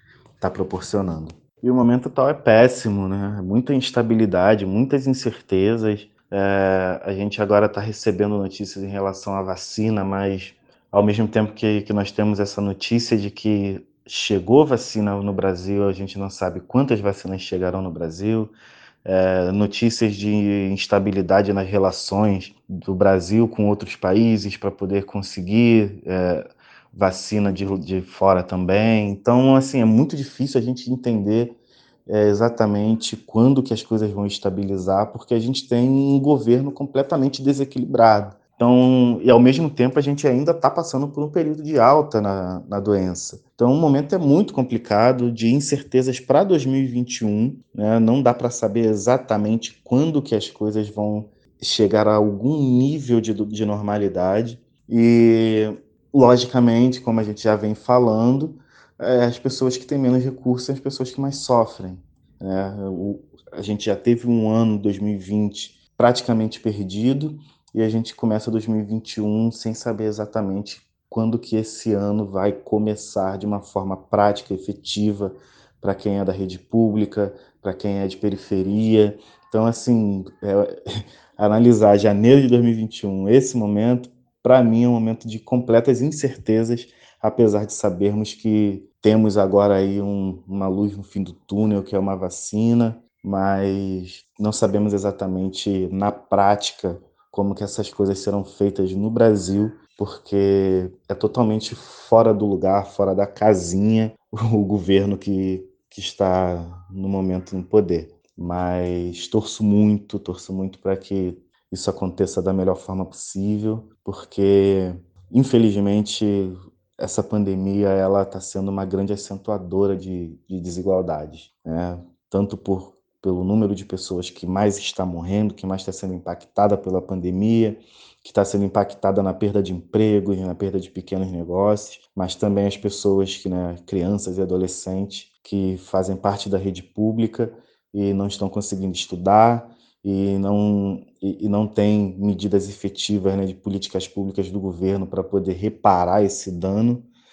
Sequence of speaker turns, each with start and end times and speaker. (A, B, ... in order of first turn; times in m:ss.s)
0:00.4-0:18.5 A
0:19.0-0:31.6 A
0:32.1-2:27.1 A